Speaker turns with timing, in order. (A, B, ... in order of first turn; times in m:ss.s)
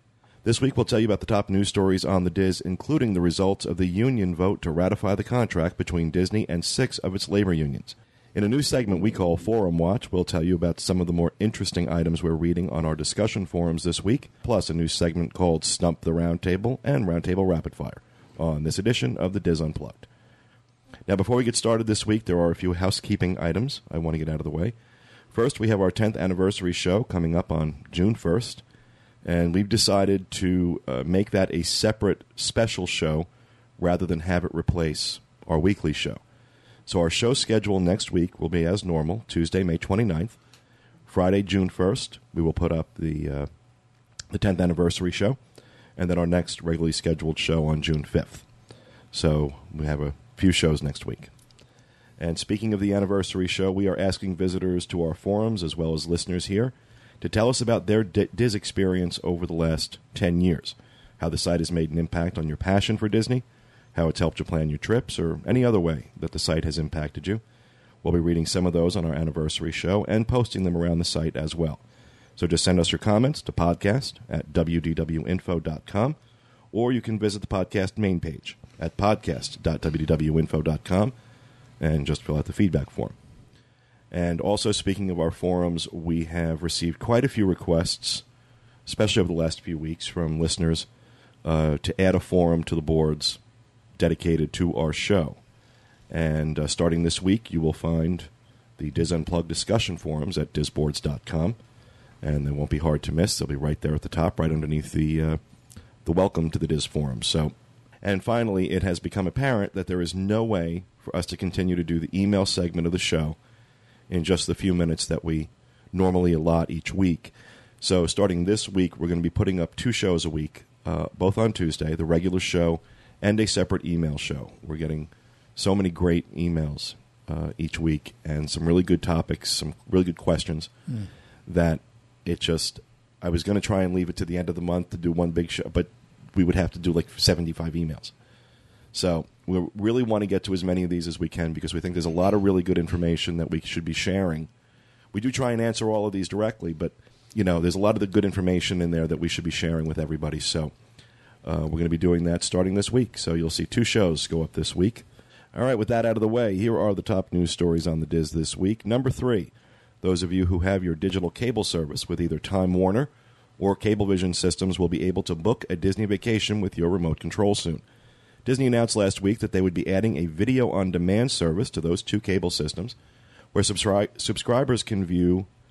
0:00.4-0:20.1 A
0:21.1-0:24.7 A
0:25.3-0:28.6 A
0:29.2-0:36.2 A
0:36.9-0:40.4 A
0:41.1-0:43.5 A
0:44.3-0:45.4 A
0:46.0-0:48.4 A
0:49.1-0:51.3 A
0:52.2-1:07.4 A
1:08.0-1:11.8 A
1:12.4-1:16.2 A
1:16.7-1:21.1 A
1:21.8-1:23.2 A
1:24.1-1:28.2 A
1:28.9-1:30.9 A
1:31.4-1:33.4 A
1:34.0-1:35.4 A
1:36.1-1:41.6 A
1:42.2-1:45.4 A
1:46.0-1:53.4 A
1:54.1-2:10.7 A
2:11.5-2:18.1 A
2:18.9-2:24.5 A
2:25.1-2:30.7 A
2:31.4-2:47.8 A
2:48.4-2:53.0 A
2:53.5-2:55.5 A